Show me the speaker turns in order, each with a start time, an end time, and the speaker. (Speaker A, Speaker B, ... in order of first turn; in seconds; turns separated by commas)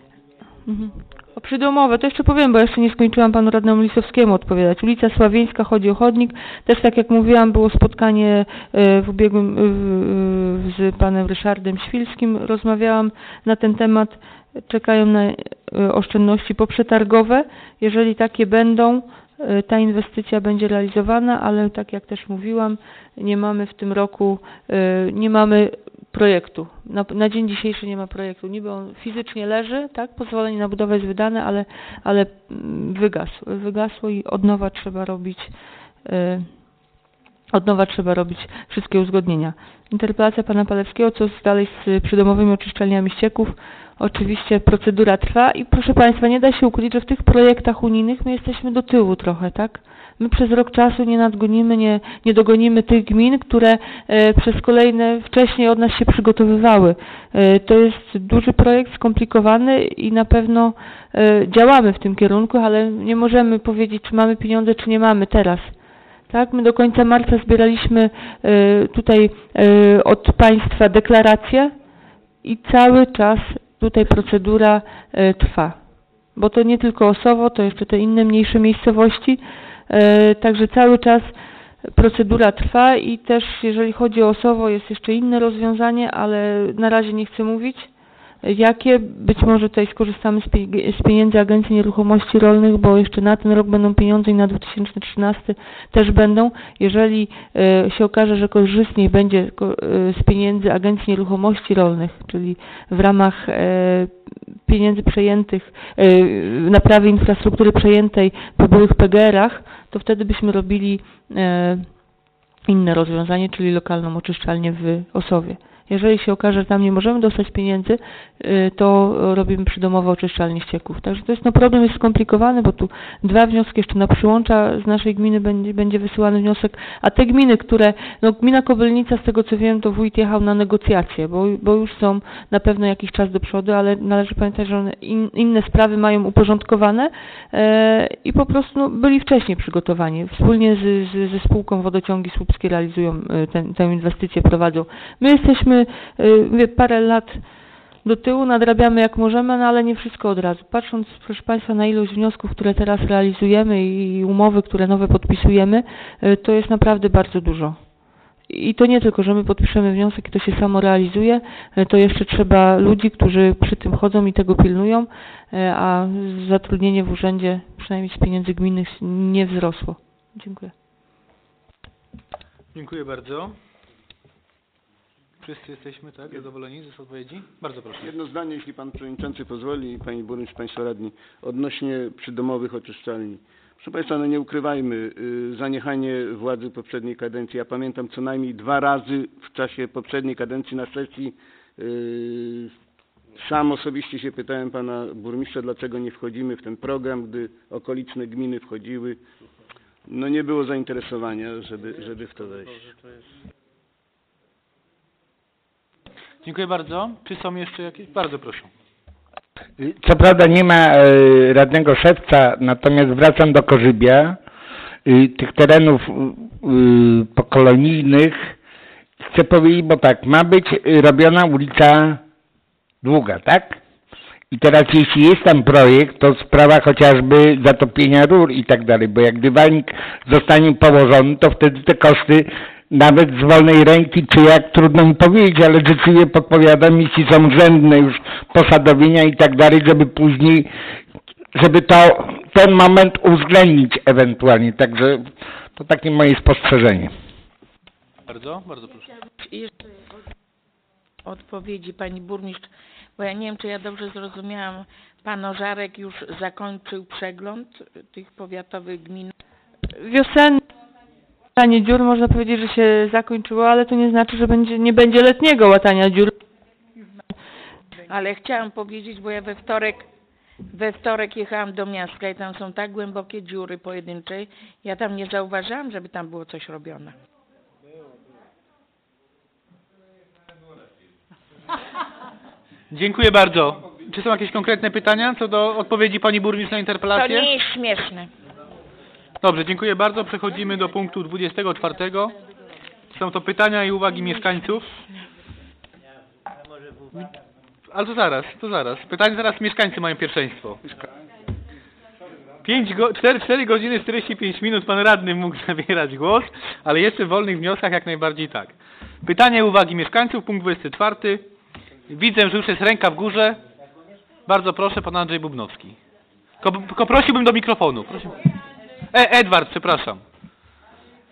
Speaker A: 0.6-35.5, Speaker A: 36.0-36.5, Speaker A: 37.5-65.7, Speaker A: 66.3-71.7, Speaker A: 72.4-75.8, Speaker A: 76.3-81.3, Speaker A: 81.9-87.9, Speaker A: 88.4-104.1, Speaker A: 104.7-111.9, Speaker A: 112.7-147.4, Speaker A: 148.0-157.8, Speaker A: 158.5-170.7, Speaker B: 172.7-173.5, Speaker B: 175.4-178.1, Speaker C: 178.0-192.7, Speaker C: 193.4-199.2, Speaker C: 200.1-202.9, Speaker B: 206.4-208.7, Speaker D: 209.8-214.4, Speaker D: 215.1-218.5, Speaker D: 219.2-222.2, Speaker D: 223.0-223.8, Speaker D: 224.5-240.7, Speaker D: 241.5-247.1, Speaker B: 248.3-249.1, Speaker E: 249.4-249.7, Speaker E: 251.2-259.3, Speaker A: 259.9-260.6, Speaker A: 261.6-266.3, Speaker E: 268.0-270.1, Speaker E: 270.7-277.1, Speaker B: 282.9-287.5, Speaker E: 287.1-288.3, Speaker B: 289.4-292.3, Speaker B: 293.1-294.9, Speaker B: 297.9-300.8, Speaker B: 302.6-308.7, Speaker B: 309.2-311.5, Speaker B: 312.1-313.6, Speaker B: 314.5-316.0, Speaker B: 316.6-318.4, Speaker B: 319.1-320.2